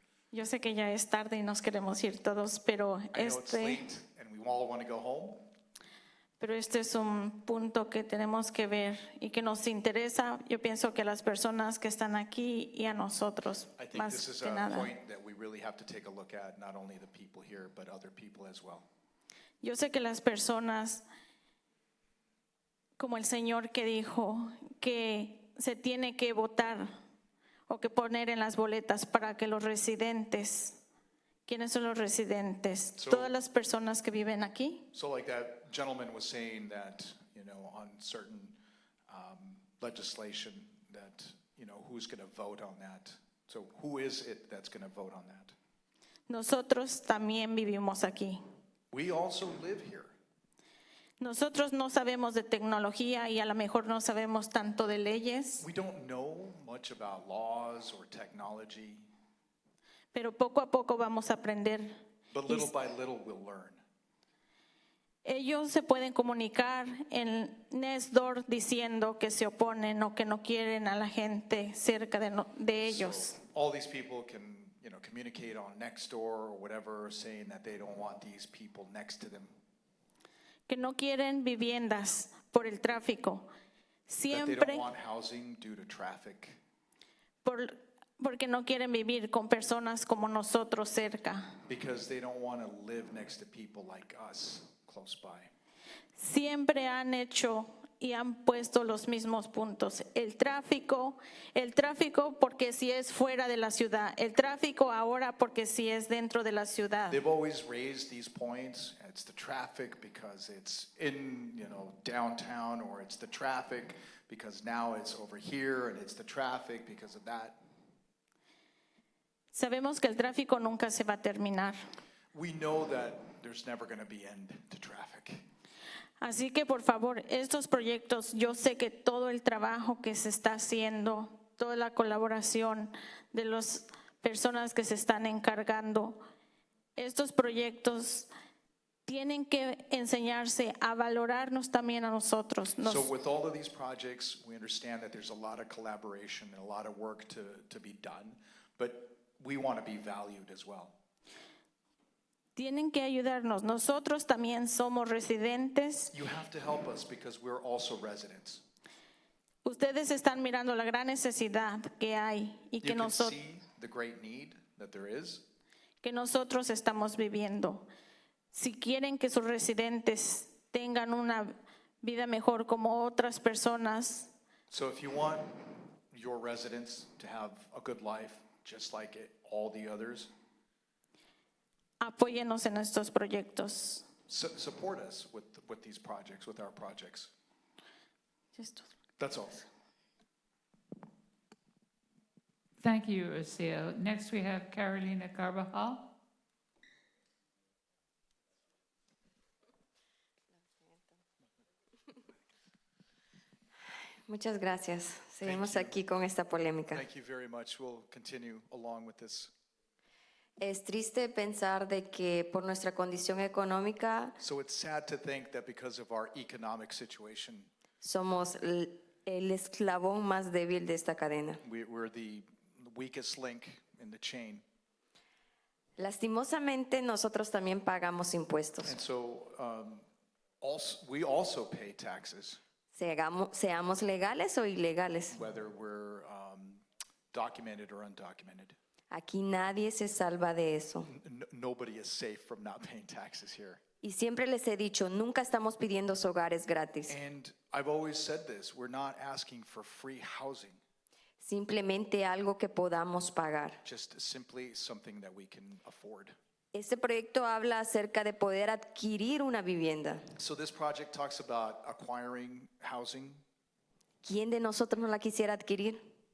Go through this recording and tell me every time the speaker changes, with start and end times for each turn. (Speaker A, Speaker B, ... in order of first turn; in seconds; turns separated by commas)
Speaker A: 0.3-3.8, Speaker B: 3.1-5.5, Speaker A: 6.4-14.9, Speaker B: 13.8-18.9, Speaker A: 19.6-21.0, Speaker A: 23.0-26.9, Speaker A: 27.7-30.8, Speaker A: 31.5-34.9, Speaker B: 33.0-33.3, Speaker B: 34.9-38.6, Speaker B: 39.1-45.5, Speaker A: 46.3-48.4, Speaker B: 48.9-50.1, Speaker A: 51.2-55.7, Speaker B: 55.6-59.1, Speaker A: 60.1-62.7, Speaker B: 62.3-63.8, Speaker A: 65.2-73.4, Speaker B: 72.8-79.5, Speaker A: 80.7-83.5, Speaker A: 84.1-84.9, Speaker B: 84.3-86.6, Speaker A: 87.4-91.5, Speaker B: 91.7-95.5, Speaker A: 96.2-107.2, Speaker B: 107.1-117.6, Speaker A: 119.5-121.8, Speaker B: 122.3-125.4, Speaker A: 126.2-136.2, Speaker A: 136.9-138.3, Speaker A: 139.1-143.1, Speaker B: 142.8-150.9, Speaker A: 152.6-156.1, Speaker B: 156.1-158.6, Speaker A: 159.6-163.3, Speaker B: 162.8-165.4, Speaker A: 166.0-167.9, Speaker A: 168.5-174.3, Speaker B: 174.7-180.3, Speaker A: 182.0-184.1, Speaker B: 184.3-187.3, Speaker A: 188.5-188.9, Speaker B: 189.2-189.7, Speaker C: 192.8-196.1, Speaker D: 204.3-207.0, Speaker B: 205.4-206.0, Speaker B: 206.9-209.5, Speaker D: 210.6-214.4, Speaker B: 214.4-217.7, Speaker D: 218.0-221.6, Speaker B: 221.6-224.6, Speaker D: 226.0-228.9, Speaker B: 228.8-230.0, Speaker B: 230.6-232.6, Speaker D: 232.9-235.4, Speaker B: 235.3-238.8, Speaker D: 239.1-241.1, Speaker B: 241.1-243.8, Speaker D: 244.0-247.2, Speaker B: 247.1-250.8, Speaker D: 251.4-253.8, Speaker B: 253.8-256.3, Speaker D: 256.7-260.2, Speaker B: 260.4-263.4, Speaker D: 264.2-266.0